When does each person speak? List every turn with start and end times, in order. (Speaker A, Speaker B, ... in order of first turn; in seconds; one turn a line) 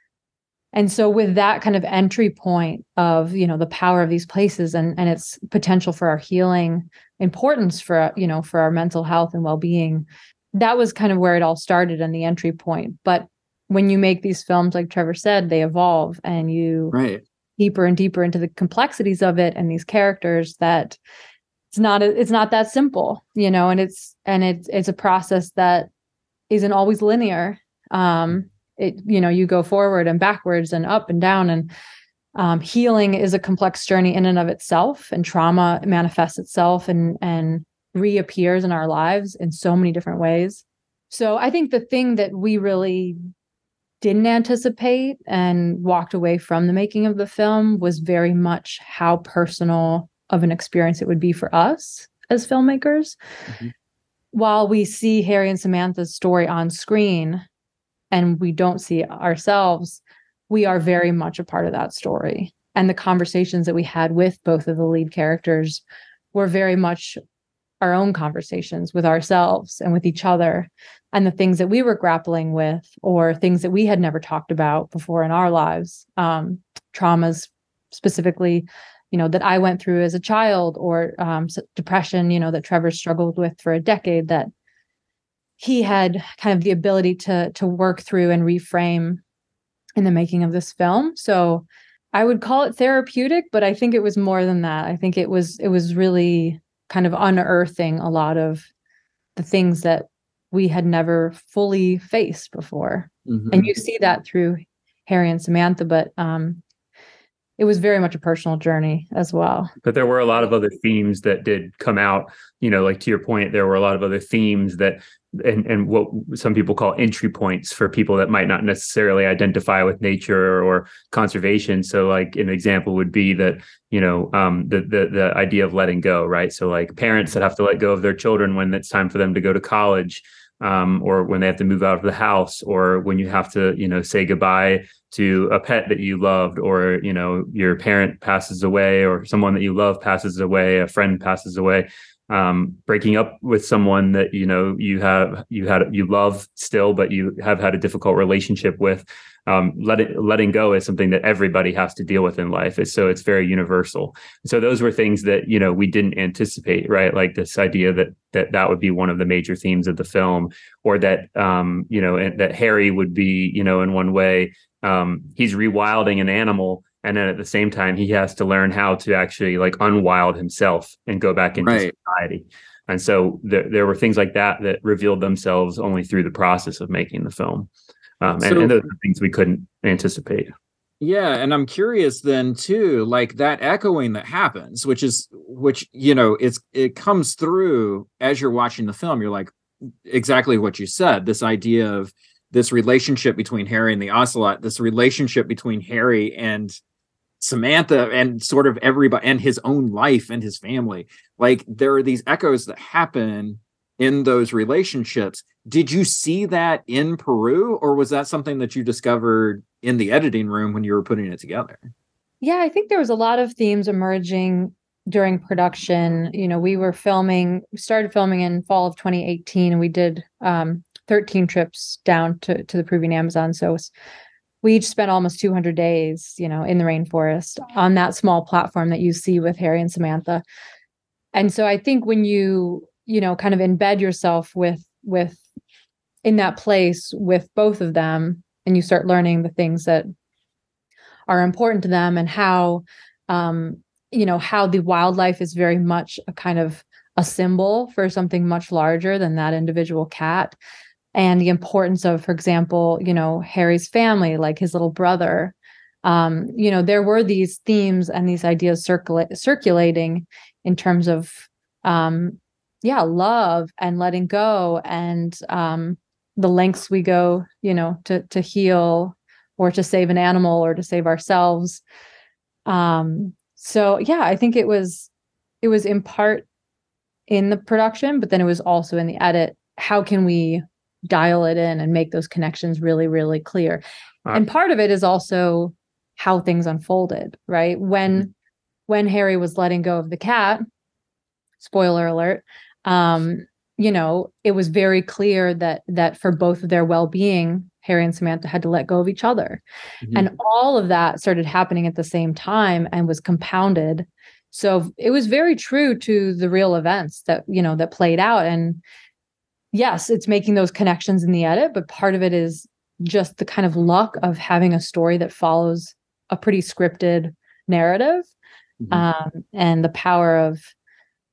Speaker A: 0.7-17.0
Speaker B: 16.9-17.2
Speaker A: 17.6-21.0
Speaker A: 21.7-25.9
Speaker A: 26.5-31.7
Speaker A: 32.4-43.2
Speaker A: 44.0-53.2
Speaker A: 54.3-57.4
Speaker A: 58.1-65.8
Speaker A: 66.3-67.2
Speaker A: 67.8-84.5
Speaker A: 85.6-89.2
Speaker A: 90.0-98.7
Speaker A: 99.4-106.6
Speaker B: 103.3-103.7
Speaker A: 107.6-109.7
Speaker C: 109.8-177.7
Speaker B: 171.6-171.9
Speaker C: 178.2-180.5
Speaker B: 178.4-178.8
Speaker B: 181.0-189.5
Speaker B: 190.1-196.8
Speaker B: 197.4-211.9
Speaker A: 212.4-223.9
Speaker A: 224.6-230.4
Speaker A: 231.3-235.4
Speaker A: 236.2-240.1
Speaker A: 241.3-250.6
Speaker A: 251.2-271.8
Speaker A: 272.7-275.1
Speaker A: 275.6-276.5
Speaker A: 277.3-288.3
Speaker A: 288.9-290.6
Speaker A: 291.6-299.6
Speaker B: 300.0-300.3
Speaker A: 300.1-308.8
Speaker A: 309.7-318.3
Speaker B: 318.8-319.1
Speaker A: 318.9-320.7